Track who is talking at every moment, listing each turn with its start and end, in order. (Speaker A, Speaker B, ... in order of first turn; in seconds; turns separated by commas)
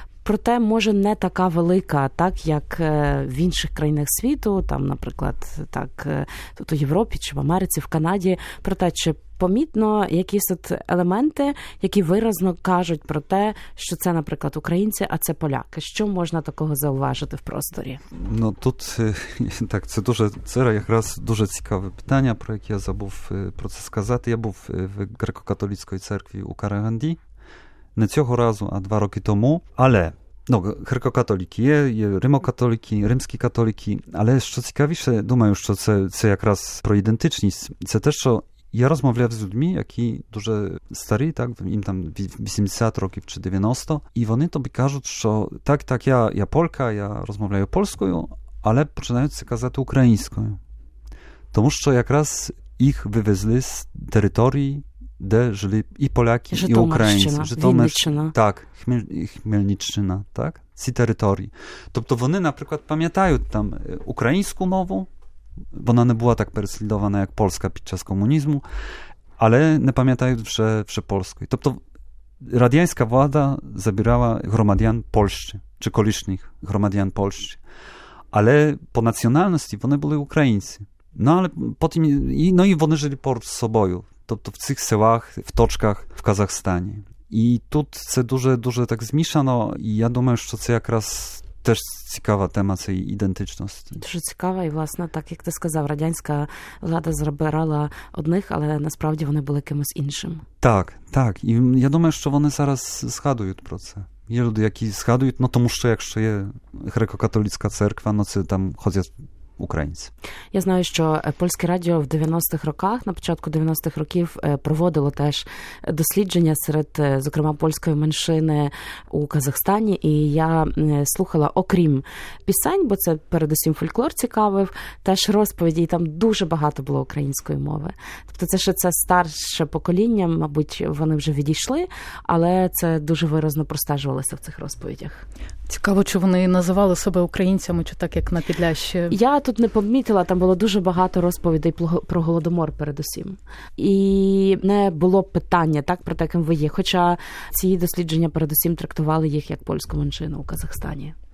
Speaker A: 0.2-18.0, Speaker B: 18.1-27.2, Speaker B: 27.9-50.6, Speaker B: 51.5-65.1, Speaker A: 56.5-58.4, Speaker B: 65.7-68.6, Speaker B: 69.4-71.8, Speaker B: 72.4-77.6, Speaker B: 78.3-94.0, Speaker A: 94.0-100.5, Speaker B: 100.6-110.1, Speaker A: 110.5-135.2, Speaker C: 135.7-139.2, Speaker A: 139.1-151.2